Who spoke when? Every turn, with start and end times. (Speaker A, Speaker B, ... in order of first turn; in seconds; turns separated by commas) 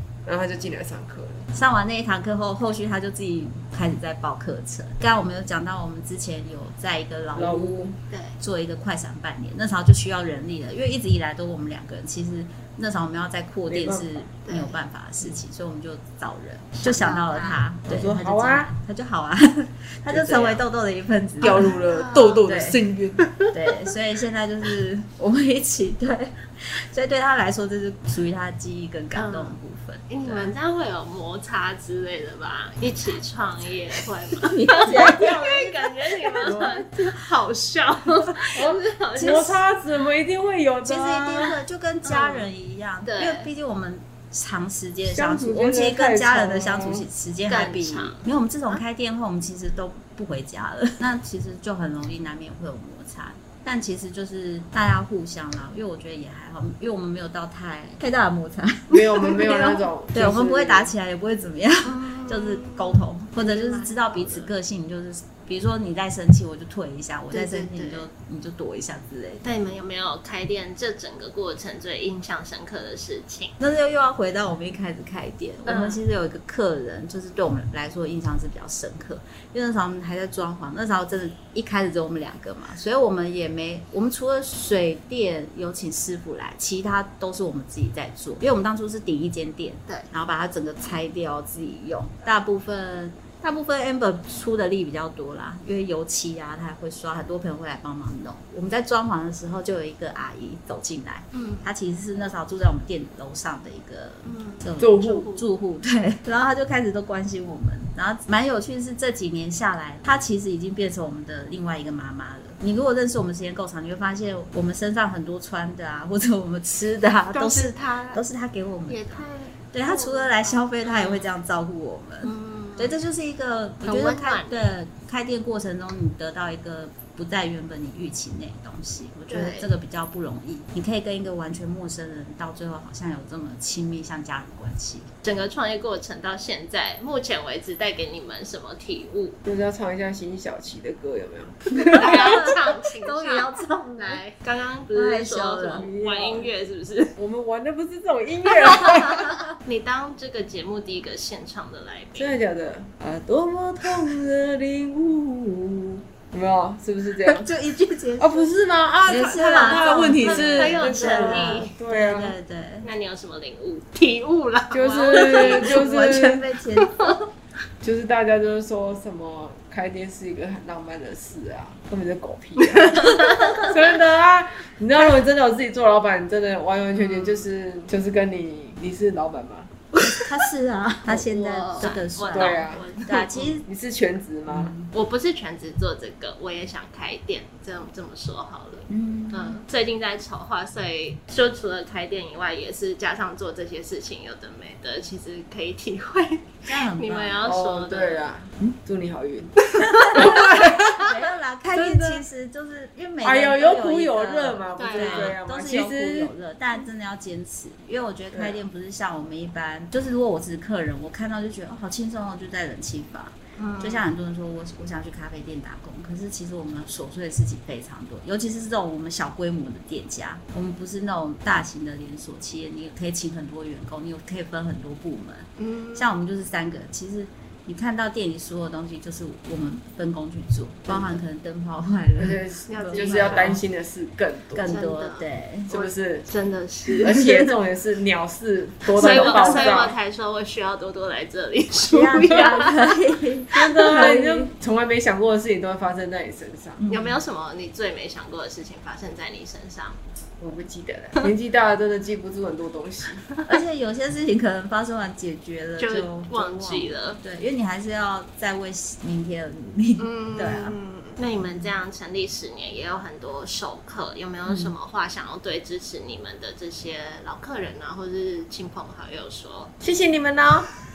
Speaker A: 0.2-1.5, Speaker B: 1.5-7.8, Speaker A: 7.3-8.0, Speaker C: 8.1-8.4, Speaker B: 8.4-21.8, Speaker A: 13.7-14.2, Speaker C: 14.4-14.8, Speaker C: 16.8-17.6, Speaker A: 17.9-18.7, Speaker C: 20.3-20.6, Speaker A: 21.4-23.3, Speaker C: 21.4-22.4, Speaker B: 22.4-22.8, Speaker C: 23.2-23.5, Speaker B: 23.5-30.5, Speaker C: 29.1-29.6, Speaker C: 30.1-39.6, Speaker B: 34.3-35.9, Speaker A: 34.9-35.3, Speaker A: 36.4-36.9, Speaker A: 38.5-41.6, Speaker B: 40.8-69.4, Speaker C: 42.0-42.5, Speaker C: 43.0-43.5, Speaker A: 45.1-47.0, Speaker C: 47.5-48.8, Speaker A: 58.9-60.9, Speaker C: 61.8-64.5, Speaker C: 67.3-68.1, Speaker C: 69.4-73.5, Speaker B: 73.6-135.1, Speaker C: 75.7-76.0, Speaker C: 101.3-101.7, Speaker C: 104.2-105.5, Speaker A: 104.8-105.3, Speaker C: 117.3-118.2, Speaker C: 118.9-121.3, Speaker C: 122.2-123.0, Speaker C: 123.8-124.7, Speaker C: 129.3-129.7, Speaker C: 135.2-139.4, Speaker A: 139.4-142.4, Speaker B: 141.7-144.2, Speaker C: 141.8-147.2, Speaker B: 144.9-145.9, Speaker A: 145.7-146.5, Speaker A: 147.2-149.5, Speaker C: 148.6-152.3, Speaker A: 152.1-157.5, Speaker B: 157.3-158.5, Speaker A: 158.2-162.3, Speaker B: 159.1-162.9, Speaker C: 159.1-161.7, Speaker C: 162.8-165.9, Speaker A: 164.7-166.5, Speaker B: 165.1-166.9, Speaker C: 166.7-167.2, Speaker A: 167.8-179.7, Speaker C: 172.6-173.9, Speaker C: 177.0-177.4, Speaker B: 179.9-183.7, Speaker C: 180.0-180.3, Speaker A: 181.1-182.9, Speaker C: 181.4-183.6, Speaker A: 183.6-184.7, Speaker B: 184.5-184.9, Speaker C: 184.9-198.2, Speaker B: 188.9-189.6, Speaker B: 196.7-197.5, Speaker A: 197.4-201.1, Speaker C: 199.6-201.1, Speaker B: 199.8-233.6, Speaker A: 201.7-202.2, Speaker A: 203.2-206.3, Speaker C: 204.8-205.4, Speaker A: 208.3-208.6, Speaker C: 213.6-214.0, Speaker C: 225.6-226.1, Speaker A: 230.9-231.1, Speaker A: 232.2-234.7, Speaker C: 232.7-233.6, Speaker B: 234.5-235.7, Speaker C: 234.7-237.3, Speaker A: 235.7-236.2, Speaker A: 237.0-239.9, Speaker B: 238.9-239.9, Speaker C: 238.9-243.0, Speaker B: 241.8-244.5, Speaker A: 243.5-246.8, Speaker B: 246.8-247.2, Speaker C: 246.9-250.0, Speaker A: 250.4-253.2, Speaker B: 253.4-260.8, Speaker C: 255.8-257.2, Speaker C: 260.0-269.7, Speaker B: 264.4-264.7, Speaker A: 269.8-270.7